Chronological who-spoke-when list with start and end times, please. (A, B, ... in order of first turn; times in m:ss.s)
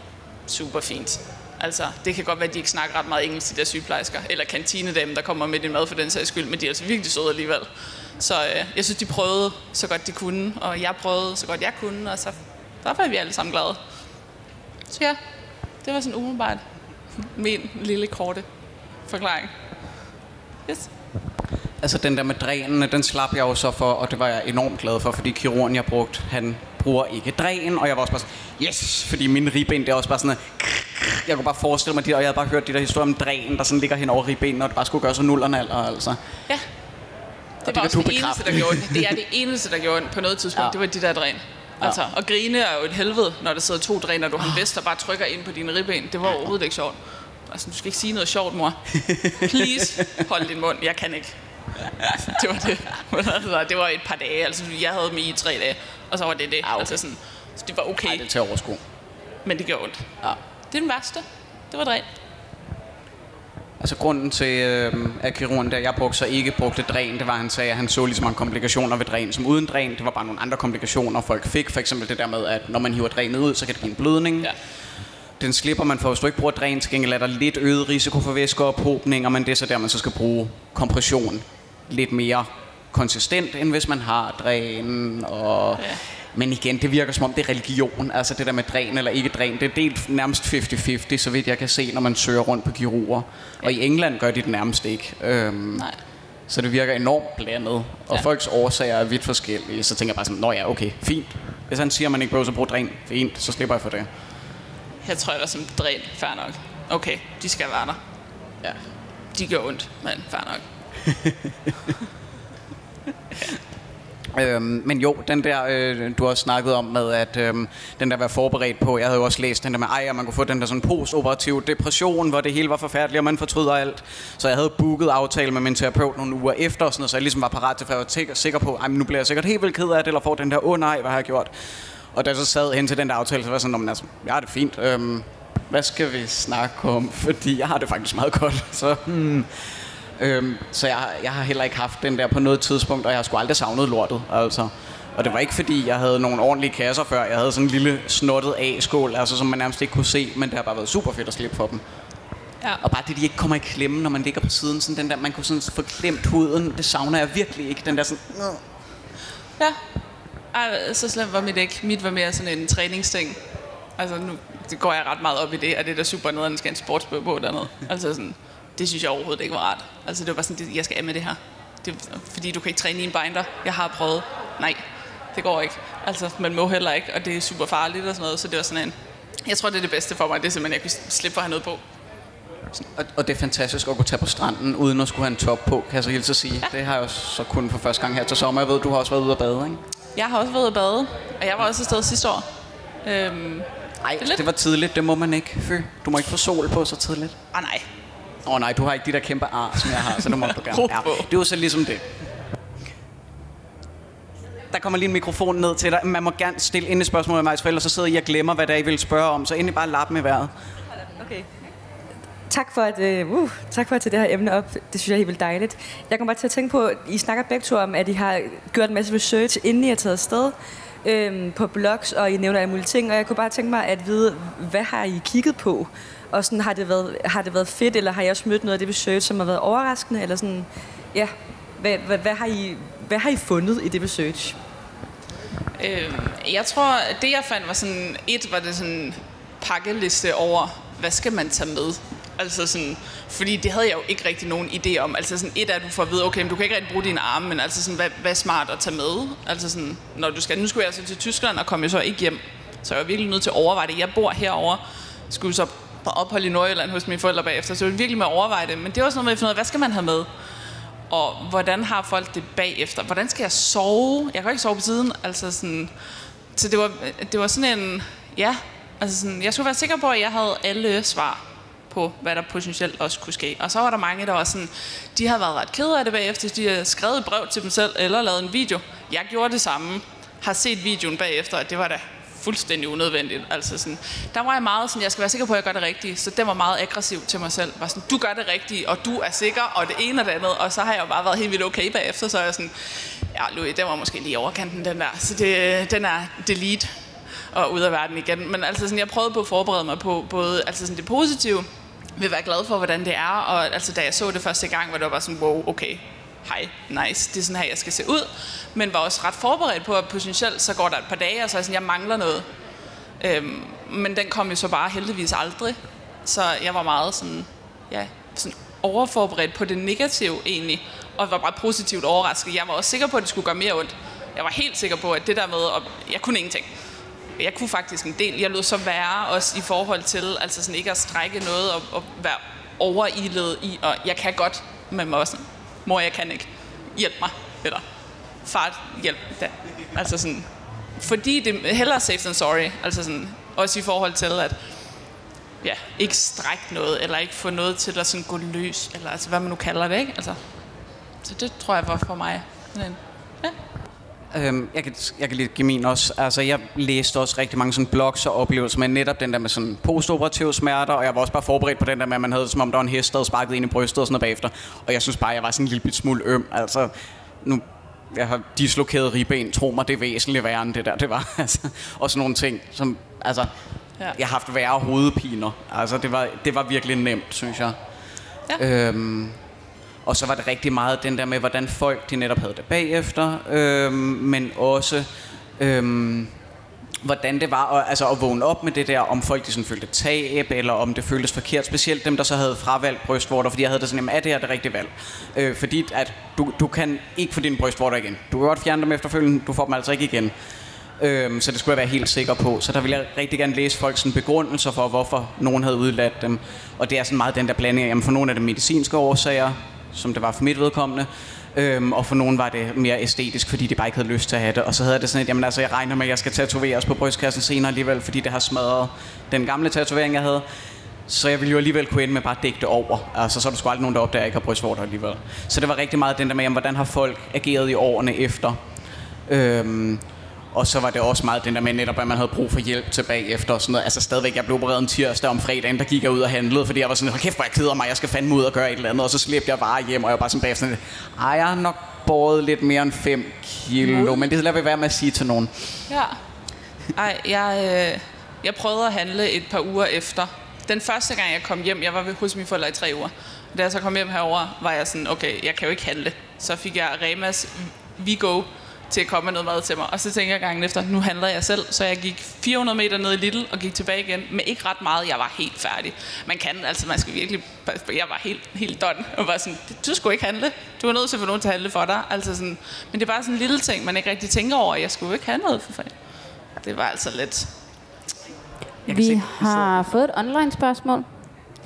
0:00.4-0:07.7 A
0:08.2-0:13.8 A
0:14.9-0:15.2 A
0:15.8-0:16.6 A
0:17.1-0:18.4 A
0:19.1-0:19.5 A
0:21.8-0:36.2 B
0:37.6-0:39.1 B
0:37.6-0:58.2 A
0:49.0-0:49.9 B
0:56.6-0:57.0 B
0:58.0-0:58.8 B
0:59.4-1:00.1 A
1:00.7-1:02.0 A
1:03.8-1:14.6 B
1:15.4-1:35.9 B
1:36.5-1:44.1 B
1:45.0-1:48.0 A
1:49.3-1:50.6 A
1:54.3-2:11.5 B
2:12.1-2:31.8 B
2:32.8-2:38.6 B
2:40.5-2:43.4 A
2:44.0-3:01.8 A
3:02.9-3:09.8 B
3:10.1-3:12.4 A
3:13.0-3:13.7 A
3:14.0-3:17.4 B
3:17.5-3:17.8 A
3:18.4-3:22.3 B
3:19.8-3:21.3 A
3:24.7-3:30.5 B
3:31.2-3:31.5 C
3:32.5-3:54.6 C
3:55.8-4:20.3 A
4:21.1-4:25.9 A
4:26.5-4:56.9 A
4:57.5-5:01.6 A
5:02.2-5:12.4 A
5:13.2-5:26.7 A
5:27.4-5:37.8 A
5:38.4-5:44.6 A
5:45.6-5:50.4 A
5:51.2-5:53.5 A
5:54.3-6:13.5 B
6:14.1-6:17.8 B
6:18.6-6:19.4 B
6:20.0-6:26.3 B
6:27.0-6:40.3 B
6:41.0-7:00.4 B
7:01.1-7:08.6 B
7:09.3-7:25.9 B
7:23.8-7:24.2 A
7:25.9-7:26.2 A
7:26.9-7:56.0 A
7:56.6-7:57.5 A
7:58.8-7:59.7 B
7:58.9-8:01.0 D